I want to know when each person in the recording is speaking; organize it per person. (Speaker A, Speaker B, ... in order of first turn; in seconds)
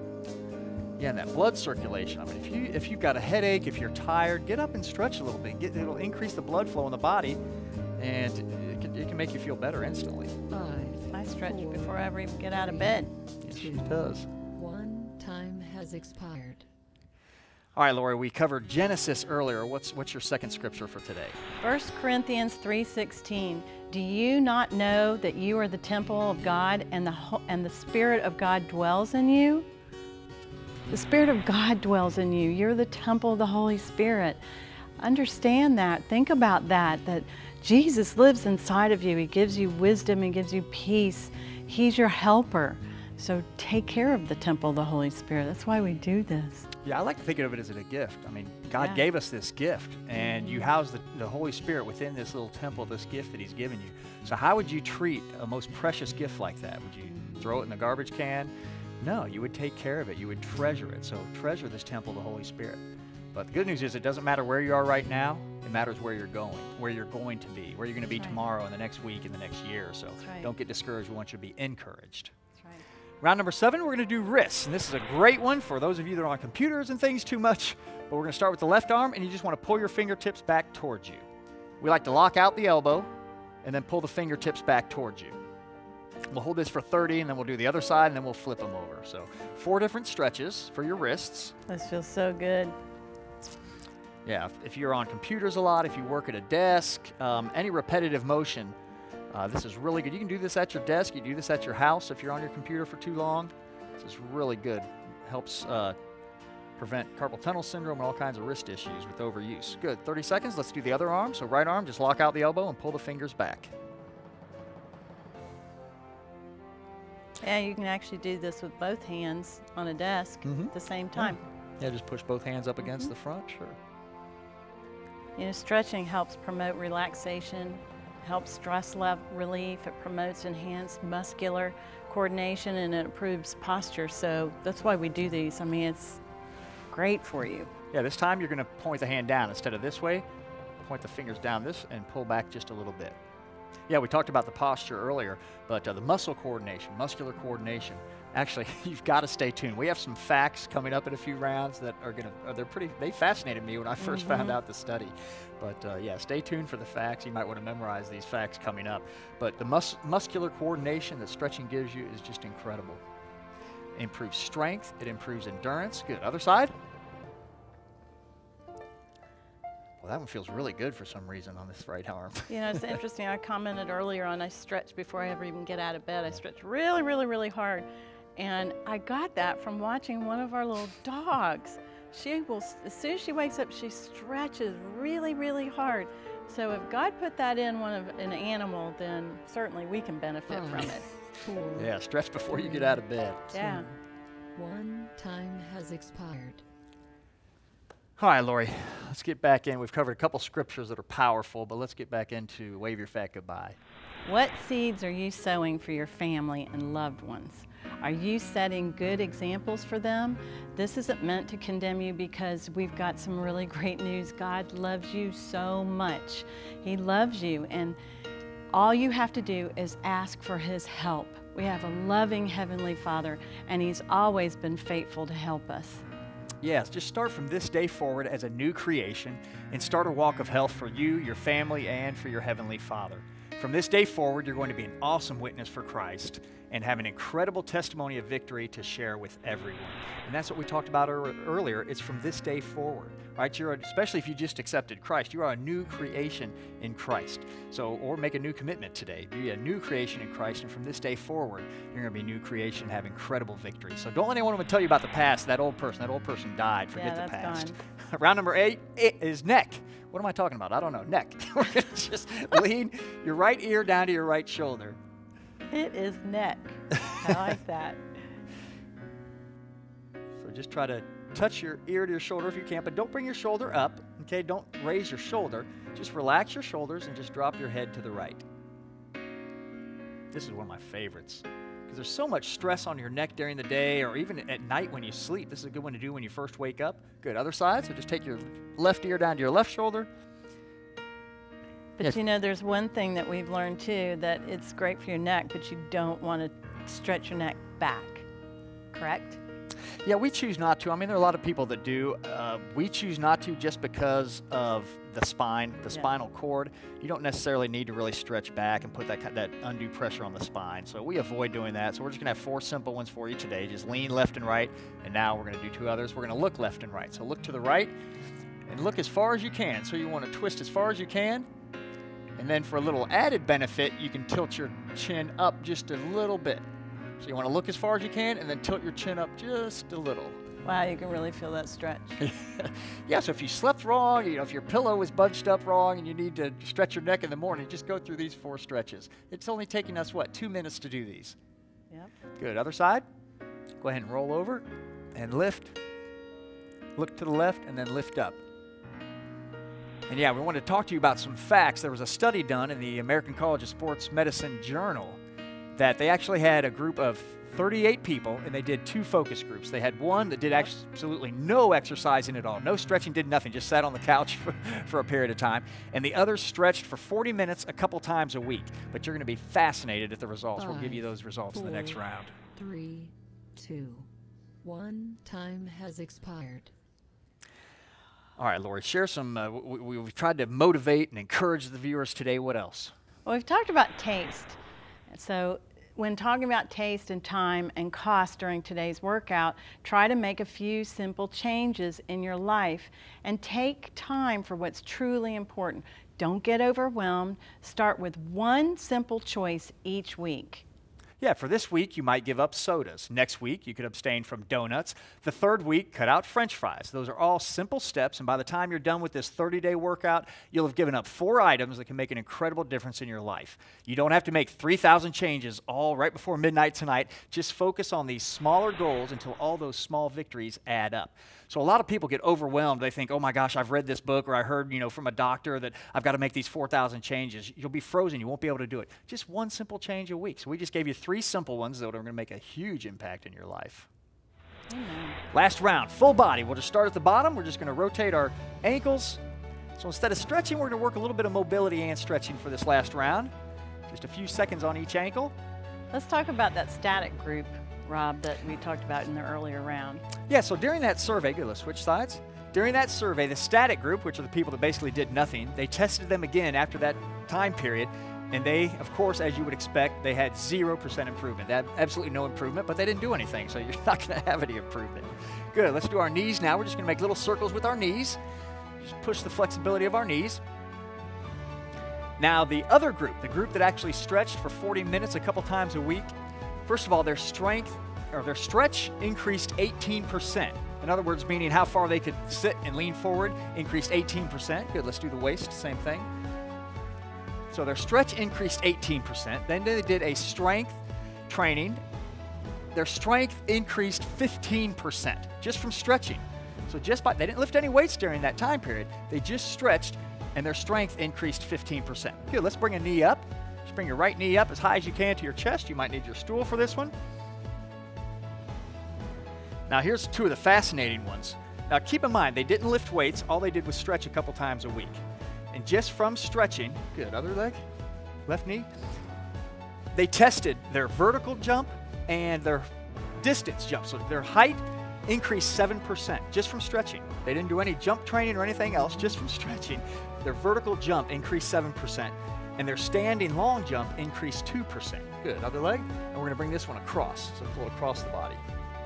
Speaker A: 1.0-7.4, 8.0-10.4, 13.4-14.3, 17.8-21.4, 46.8-72.3, 73.2-81.3, 81.8-83.1, 83.6-85.4, 86.3-91.5, 94.2-98.7, 99.3-106.0, 106.8-113.7, 120.4-123.8, 137.9-140.2, 140.8-143.2, 143.9-163.0, 163.9-166.8, 170.0-173.0, 191.7-193.5, 198.2-203.8, 226.6-265.0, 270.4-278.4, 280.3-290.1, 300.0-317.9, 318.7-321.5, 322.4-326.6, 327.2-330.4, 332.2-341.4, 342.4-343.0, 343.8-345.8, 346.9-348.4, 350.1-355.2, 355.7-372.4, 378.4-382.9, 401.2-433.9, 435.3-439.2, 439.8-443.3, 443.9-445.3, 450.3-468.2, 468.8-470.4, 472.2-476.1, 476.6-486.1, 487.5-491.8, 492.7-506.9, 509.7-515.0, 515.5-517.6, 518.3-518.7, 519.9-538.4
Speaker B: 10.5-13.9, 14.5-16.6, 190.5-191.9, 192.5-193.0, 193.5-193.9, 194.5-196.6, 370.6-372.0, 372.5-374.1, 374.6-376.7
Speaker C: 11.1-13.1, 21.6-29.7, 30.9-34.4, 35.0-46.7, 48.8-49.0, 68.2-68.4, 70.2-70.5, 91.7-92.8, 117.4-121.4, 125.4-136.2, 136.9-137.7, 154.0-154.6, 172.5-191.1, 193.5-193.8, 204.2-218.0, 218.7-226.0, 256.9-257.8, 265.7-268.0, 292.0-298.2, 298.9-299.4, 330.6-332.2, 383.2-384.6, 385.1-400.6, 434.7-435.2, 445.9-450.0